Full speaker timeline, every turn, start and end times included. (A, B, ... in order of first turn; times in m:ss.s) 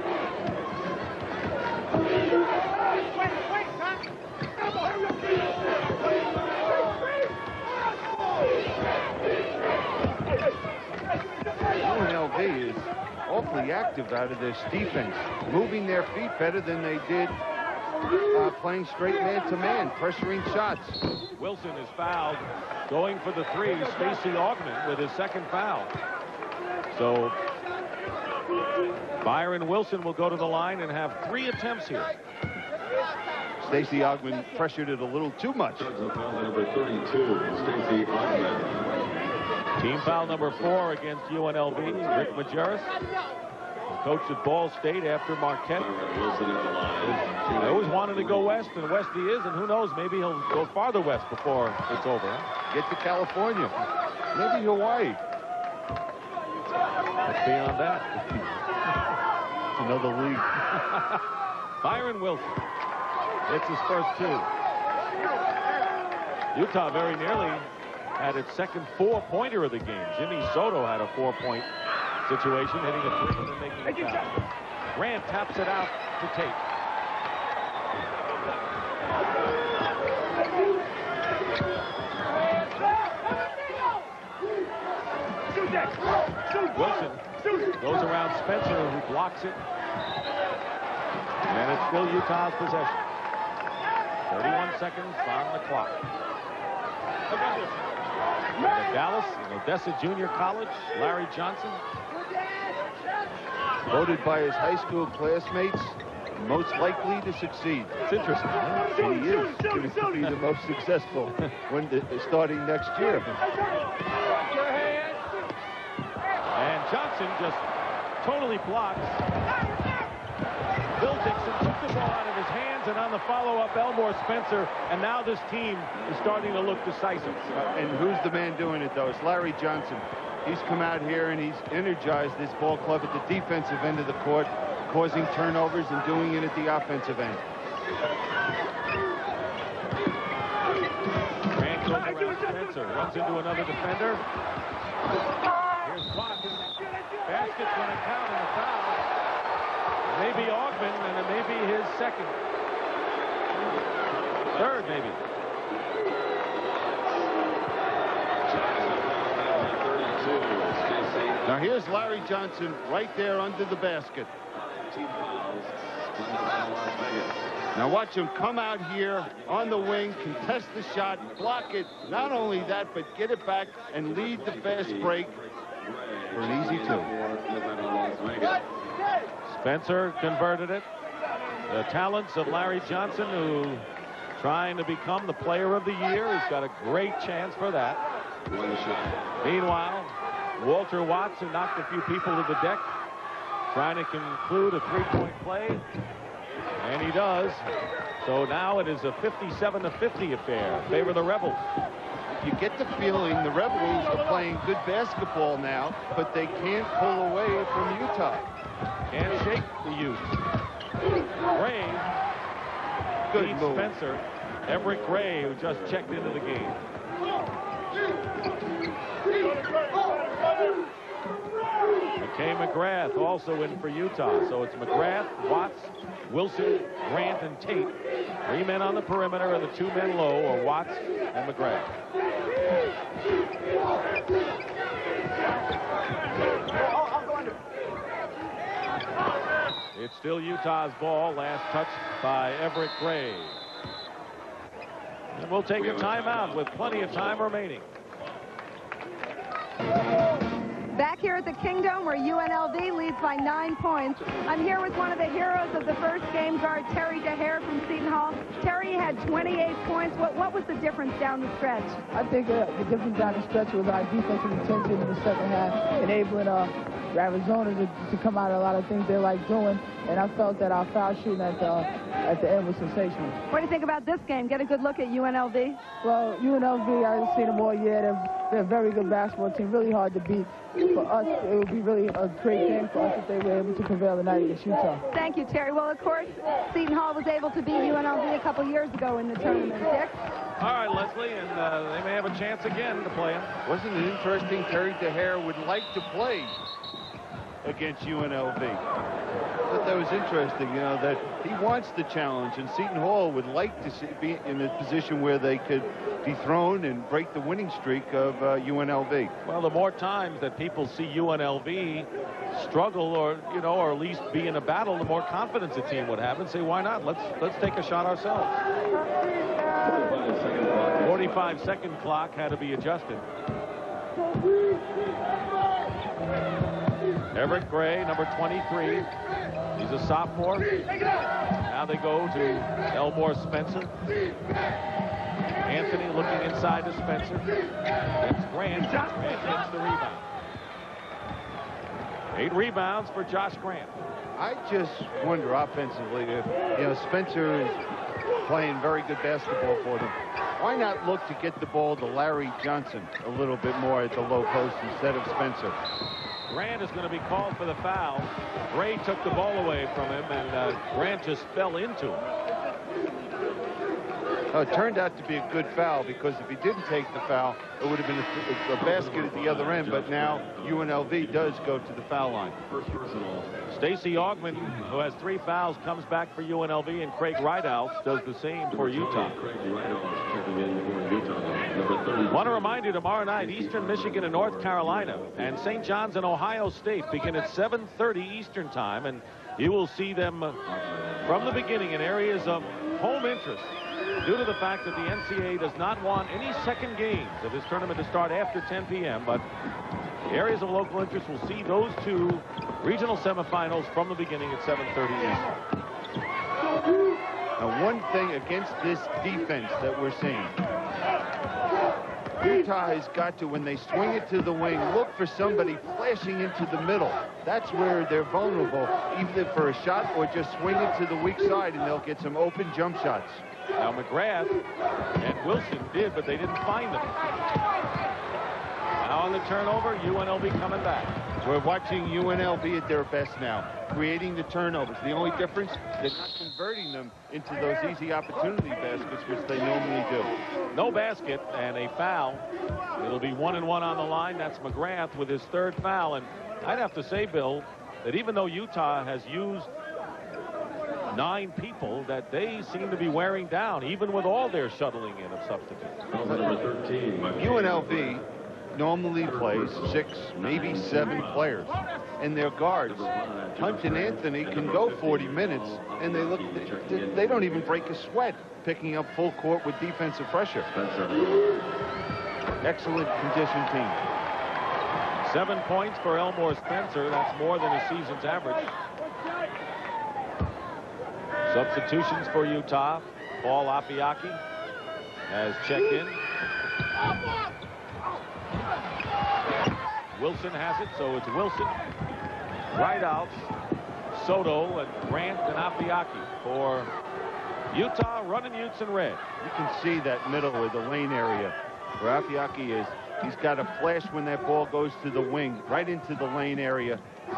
0:11.8-0:17.4 A
0:18.3-0:21.0 A
0:21.4-0:25.9 B
0:26.9-0:27.4 B
0:29.2-0:32.1 B
0:33.6-0:35.9 A
0:35.8-0:39.1 C
0:39.8-0:42.9 B
0:39.9-0:40.8 C
0:42.0-0:42.4 C
0:43.9-0:45.9 B
0:45.8-0:48.6 C
0:47.5-0:52.5 B
0:52.7-0:53.7 A
0:54.3-0:55.2 A
0:57.2-0:58.4 B
0:59.8-1:00.5 A
1:00.9-1:01.2 B
1:01.8-1:02.6 B
1:03.5-1:04.5 B
1:06.5-1:11.7 B
1:12.2-1:14.4 B
1:14.9-1:16.6 B
1:26.6-1:29.6 B
1:31.5-1:33.0 B
1:34.3-1:36.0 B
1:38.6-1:41.8 B
1:43.9-1:53.3 A
1:56.5-1:57.6 B
1:58.2-1:59.2 B
2:01.0-2:07.4 B
2:05.9-2:08.2 C
2:07.6-2:17.4 A
2:21.5-2:24.2 B
2:25.8-2:26.7 B
2:27.2-2:29.0 B
2:30.1-2:32.4 B
2:34.5-2:35.2 B
2:38.5-2:41.6 C
2:41.5-2:44.3 A
2:44.5-2:47.5 C
2:47.8-2:55.3 A
2:49.3-2:52.9 C
2:54.0-2:58.6 C
2:56.3-2:57.1 A
2:59.4-3:00.9 B
3:01.7-3:03.8 B
3:04.4-3:08.0 B
3:08.5-3:09.2 C
3:09.4-3:12.9 B
3:13.7-3:15.8 B
3:16.8-3:17.7 B
3:18.2-3:21.8 B
3:22.3-3:28.5 A
3:29.1-3:30.4 B
3:31.5-3:32.1 B
3:33.3-3:33.9 A
3:33.3-3:36.8 B
3:42.2-3:51.9 B
3:59.9-4:03.6 B
4:05.3-4:07.9 B
4:05.8-4:07.5 C
4:10.9-4:22.0 D
4:22.1-4:33.4 E
4:33.5-4:35.8 D
4:36.0-4:45.0 E
4:45.1-4:50.2 D
4:50.6-4:53.5 B
4:53.6-4:56.6 A
4:57.6-4:58.8 A
4:59.7-5:09.3 A
5:09.4-5:18.6 B
5:19.8-5:21.6 C
5:21.0-5:23.2 B
5:27.3-5:29.1 B
5:29.8-5:30.7 B
5:31.6-5:33.9 B
5:35.6-5:37.5 B
5:38.2-5:40.2 B
5:42.3-5:43.9 B
5:44.4-5:47.8 A
5:48.4-5:55.8 A
5:56.5-6:02.2 B
6:04.5-6:12.6 A
6:08.8-6:11.6 C
6:12.7-6:13.6 C
6:13.7-6:19.4 B
6:14.3-6:15.0 C
6:18.7-6:22.8 C
6:22.3-6:30.6 B
6:23.3-6:25.6 C
6:30.7-6:31.5 C
6:31.2-6:39.4 B
6:40.3-6:45.5 B
6:47.6-6:50.6 A
6:52.4-7:03.4 A
7:03.8-7:04.6 B
7:05.2-7:07.2 B
7:09.0-7:11.1 B
7:11.4-7:20.4 A
7:20.7-7:22.4 B
7:23.0-7:29.7 B
7:31.1-7:36.0 B
7:36.1-7:38.2 C
7:37.4-7:50.7 A
7:39.2-7:41.5 C
7:42.9-7:47.8 C
7:50.7-7:51.7 C
7:52.6-7:54.0 A
7:55.2-7:58.7 B
8:01.5-8:04.4 B
8:05.3-8:06.2 B
8:10.1-8:11.8 B
8:12.7-8:13.5 B
8:14.1-8:16.9 B
8:17.7-8:19.2 B
8:19.4-8:27.0 A